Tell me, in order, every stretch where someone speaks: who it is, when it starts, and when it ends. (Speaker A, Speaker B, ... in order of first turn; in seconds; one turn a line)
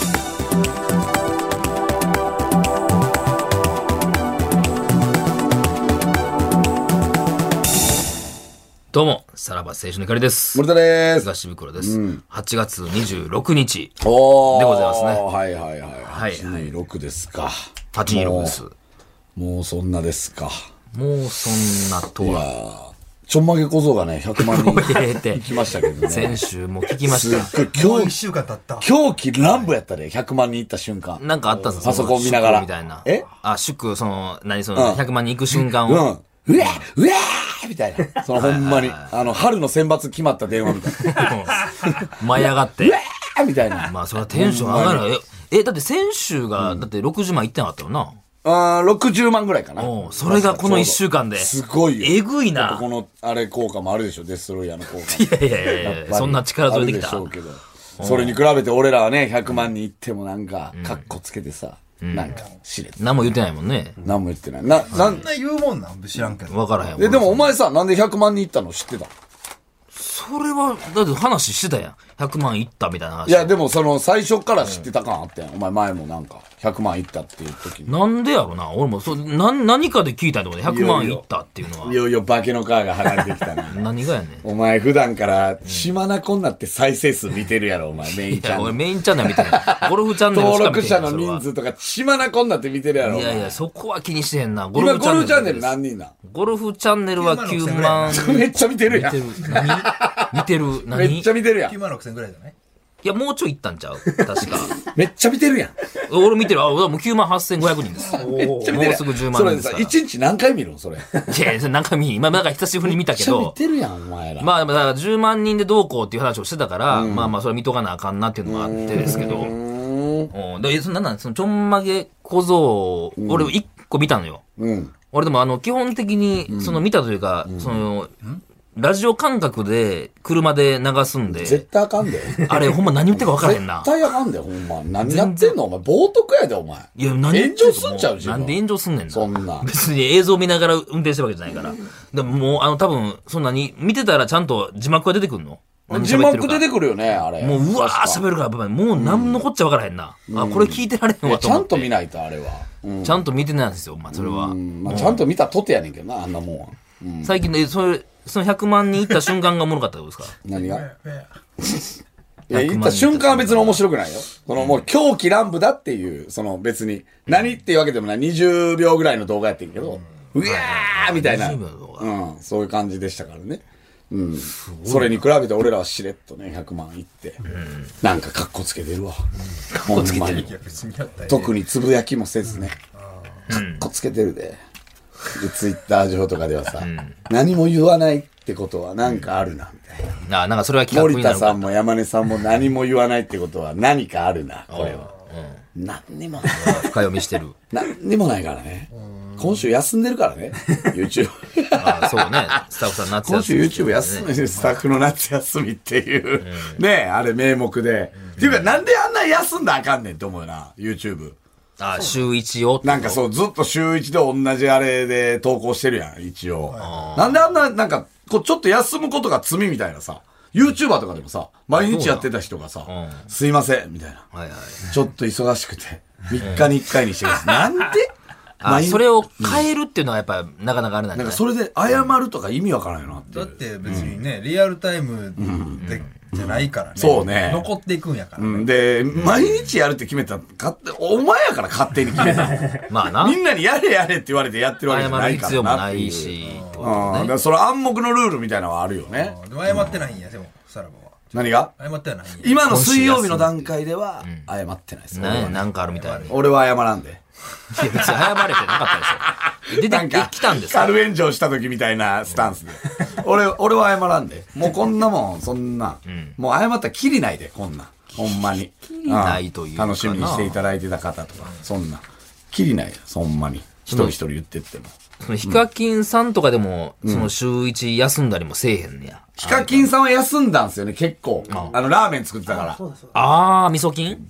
Speaker A: 8.9-10.7
Speaker B: 10.5-12.2
Speaker A: 11.2-15.2
Speaker B: 14.0-18.6
Speaker A: 16.0-16.7
Speaker A: 17.9-18.7
Speaker B: 19.4-20.6
Speaker A: 20.9-22.4
Speaker B: 22.2-28.1
Speaker A: 24.4-27.6
Speaker C: 27.5-28.9
Speaker B: 28.8-33.3
Speaker A: 31.2-36.1
Speaker B: 34.8-45.1
Speaker A: 38.3-39.1
Speaker A: 41.0-43.0
Speaker A: 43.8-48.2
Speaker B: 46.6-46.8
Speaker B: 48.4-63.0
Speaker A: 49.8-52.8
Speaker A: 55.0-57.3
Speaker A: 58.0-58.4
Speaker A: 60.7-61.1
Speaker A: 62.0-62.4
Speaker A: 63.0-64.0
Speaker B: 64.0-65.2
Speaker C: 64.8-66.6
Speaker A: 66.5-67.5
Speaker B: 67.0-69.1
Speaker A: 69.9-73.5
Speaker B: 73.2-78.0
Speaker A: 74.6-74.9
Speaker A: 77.8-82.0
Speaker B: 80.6-81.2
Speaker B: 81.8-83.8
Speaker A: 83.7-84.5
Speaker B: 84.4-93.6
Speaker A: 88.2-91.4
Speaker A: 93.0-101.3
Speaker B: 94.7-96.1
Speaker C: 97.2-98.2
Speaker B: 98.1-101.7
Speaker C: 101.5-102.5
Speaker A: 103.0-104.8
Speaker B: 104.5-105.8
Speaker A: 106.0-110.0
Speaker B: 108.0-111.5
Speaker A: 111.3-113.6
Speaker B: 112.8-114.6
Speaker A: 114.4-119.5
Speaker B: 116.9-117.3
Speaker B: 118.5-120.3
Speaker A: 120.3-124.4
Speaker B: 123.2-123.5
Speaker B: 124.6-124.9
Speaker A: 125.1-128.1
Speaker B: 126.5-126.8
Speaker B: 127.4-127.8
Speaker A: 128.8-131.6
Speaker B: 131.3-139.7
Speaker A: 132.4-133.9
Speaker A: 135.0-135.6
Speaker A: 137.0-146.7
Speaker B: 145.9-148.2
Speaker A: 147.4-151.9
Speaker B: 148.9-149.4
Speaker B: 150.3-153.2
Speaker A: 153.0-155.2
Speaker B: 154.1-157.4
Speaker A: 157.2-160.3
Speaker B: 160.4-160.9
Speaker C: 160.5-161.3
Speaker B: 162.5-177.4
Speaker A: 162.5-163.8
Speaker A: 170.4-172.1
Speaker A: 174.5-175.2
Speaker A: 177.5-177.9
Speaker B: 178.0-179.2
Speaker A: 179.7-180.5
Speaker B: 179.8-180.5
Speaker C: 179.9-181.6
Speaker B: 181.3-182.8
Speaker C: 182.9-183.4
Speaker B: 183.5-184.6
Speaker A: 183.5-183.8
Speaker B: 185.3-190.2
Speaker A: 186.8-187.2
Speaker A: 190.2-191.8
Speaker B: 190.9-195.1
Speaker A: 194.7-195.6
Speaker B: 195.8-197.0
Speaker A: 196.5-197.6
Speaker B: 197.7-211.4
Speaker C: 199.1-199.4
Speaker A: 201.8-204.3
Speaker A: 206.4-206.8
Speaker A: 208.4-208.7
Speaker A: 211.8-213.2
Speaker B: 212.8-224.2
Speaker C: 216.7-217.2
Speaker A: 216.8-217.4
Speaker A: 221.7-222.3
Speaker A: 222.8-223.2
Speaker A: 224.3-224.9
Speaker B: 224.8-228.1
Speaker A: 226.4-226.7
Speaker A: 228.6-231.4
Speaker B: 228.6-229.7
Speaker B: 231.2-234.1
Speaker C: 233.3-238.7
Speaker A: 233.8-234.2
Speaker B: 235.4-236.4
Speaker B: 236.9-237.7
Speaker B: 238.4-249.8
Speaker A: 239.1-239.7
Speaker A: 242.8-243.4
Speaker A: 244.9-247.3
Speaker C: 246.4-247.1
Speaker C: 249.1-252.7
Speaker A: 249.7-250.0
Speaker B: 251.3-251.7
Speaker B: 252.4-255.7
Speaker A: 252.6-254.5
Speaker A: 255.1-256.4
Speaker C: 255.8-256.5
Speaker B: 256.2-257.2
Speaker A: 257.7-260.9
Speaker B: 259.2-275.6
Speaker A: 266.1-266.4
Speaker A: 268.8-270.6
Speaker A: 273.9-274.1
Speaker A: 275.2-279.9
Speaker B: 277.0-277.3
Speaker B: 279.4-282.8
Speaker A: 281.5-281.8
Speaker C: 282.6-283.1
Speaker A: 283.1-284.2